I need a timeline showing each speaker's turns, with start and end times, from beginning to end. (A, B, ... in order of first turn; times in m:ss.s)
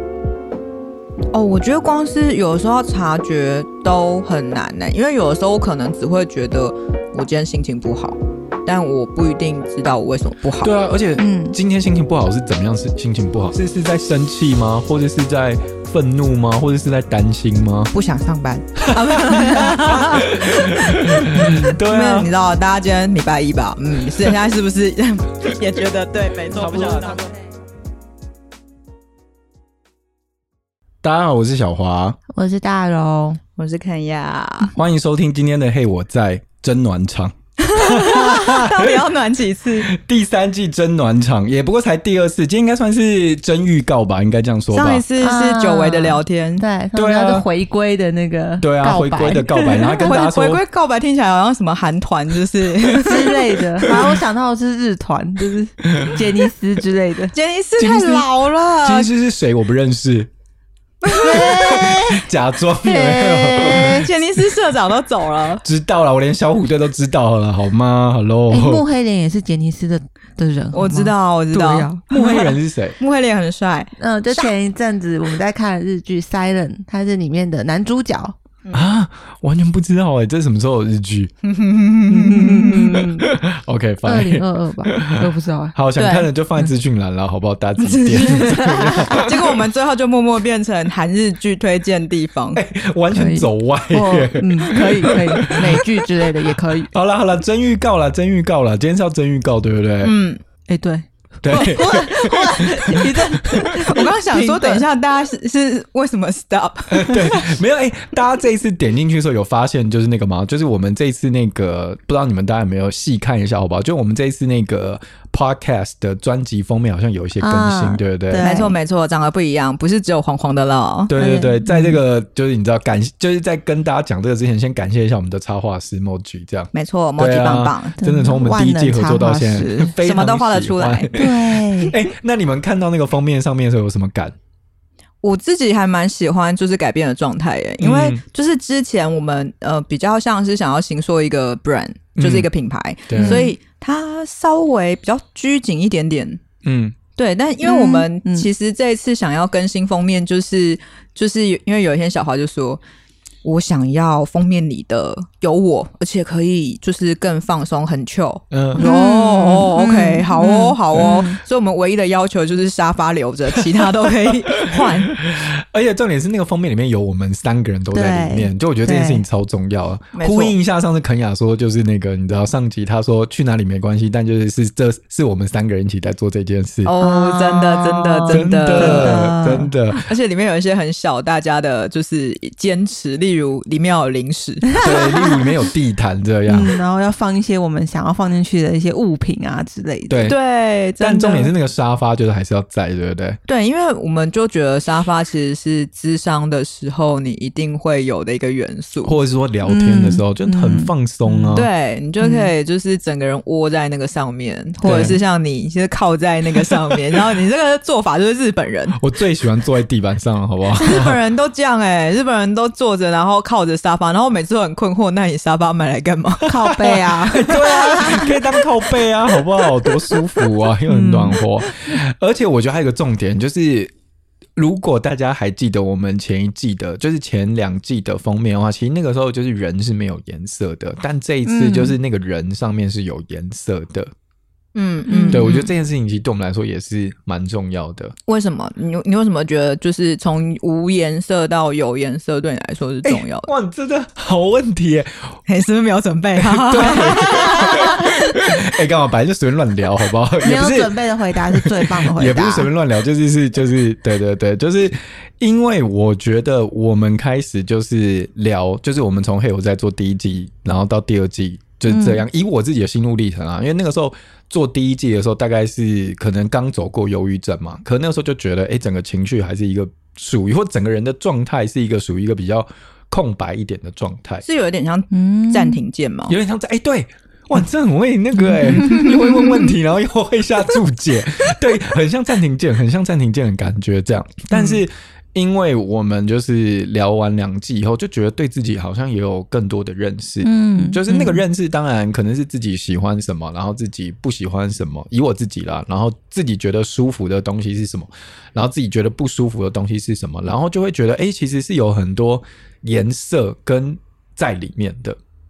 0:01.3-0:10.7 A
0:10.6-0:17.9 B
0:11.2-0:11.6 C
0:17.9-0:27.3 A
0:18.8-0:22.3 B
0:26.5-0:27.3 B
0:26.9-0:27.3 C
0:31.0-0:32.2 B
0:32.3-0:33.4 C
0:33.6-0:34.7 A
0:34.7-0:39.0 B
0:37.6-0:39.9 A
0:39.8-0:45.0 B
0:44.7-0:46.6 A
0:45.2-0:50.2 C
0:46.9-0:47.4 B
0:48.6-0:50.6 B
0:49.6-0:53.8 A
0:53.0-0:57.3 C
0:55.9-0:56.2 B
0:57.3-0:59.1 A
0:57.8-0:58.3 B
0:58.8-1:00.3 B
1:01.0-1:01.8 A
1:01.2-1:04.1 C
1:01.2-1:04.1 B
1:03.7-1:05.6 A
1:05.6-1:08.8 B
1:08.5-1:12.5 C
1:10.7-1:14.5 A
1:12.1-1:13.0 B
1:14.0-1:18.3 C
1:18.7-1:21.3 B
1:21.4-1:23.0 A
1:22.1-1:23.3 C
1:23.2-1:29.4 B
1:24.0-1:26.7 C
1:27.8-1:32.6 A
1:28.2-1:29.2 C
1:32.5-1:35.9 B
1:33.1-1:36.9 C
1:36.9-1:40.1 B
1:40.0-1:40.4 A
1:40.7-1:44.8 C
1:41.4-1:43.6 B
1:43.7-1:47.5 A
1:46.9-1:58.4 B
1:57.4-1:58.7 C
1:58.4-2:01.1 A
2:01.1-2:14.4 B
2:01.1-2:02.0 C
2:06.7-2:08.0 A
2:08.0-2:09.9 C
2:10.0-2:11.1 A
2:11.1-2:12.0 C
2:15.2-2:26.4 A
2:17.8-2:18.2 B
2:22.2-2:22.5 B
2:23.1-2:23.4 B
2:23.1-2:23.5 C
2:26.6-2:27.0 B
2:27.2-2:32.8 A
2:27.6-2:28.5 C
2:33.4-2:45.2 A
2:38.5-2:38.8 B
2:38.8-2:41.4 C
2:44.2-2:56.9 B
2:47.9-2:49.2 C
2:50.1-2:50.5 A
2:56.8-2:59.3 A
2:57.0-2:59.7 C
2:58.3-3:00.0 B
2:59.9-3:04.8 A
3:04.7-3:05.5 C
3:04.8-3:06.8 B
3:06.5-3:10.3 C
3:10.1-3:10.4 B
3:10.2-3:11.5 A
3:11.0-3:13.4 B
3:13.5-3:19.1 A
3:19.0-3:21.7 B
3:19.6-3:21.6 C
3:21.5-3:29.0 A
3:22.2-3:22.5 C
3:24.8-3:25.1 C
3:24.8-3:25.2 B
3:29.0-3:31.2 B
3:30.8-3:36.8 A
3:36.4-3:38.4 C
3:36.5-3:43.9 B
3:37.4-3:38.3 A
3:40.9-3:41.4 C
3:44.6-3:54.1 B
3:51.4-3:52.0 C
3:54.7-3:55.7 A
3:55.1-3:55.6 C
3:55.3-3:58.1 B
3:58.3-4:03.5 A
4:03.0-4:05.3 B
4:05.5-4:08.2 A
4:06.4-4:34.4 B
4:06.9-4:08.0 C
4:10.4-4:12.7 C
4:21.9-4:22.2 C
4:34.4-4:36.3 A
4:35.1-4:35.8 C
4:36.3-5:05.2 B
4:38.4-4:39.6 C
4:50.4-4:51.4 C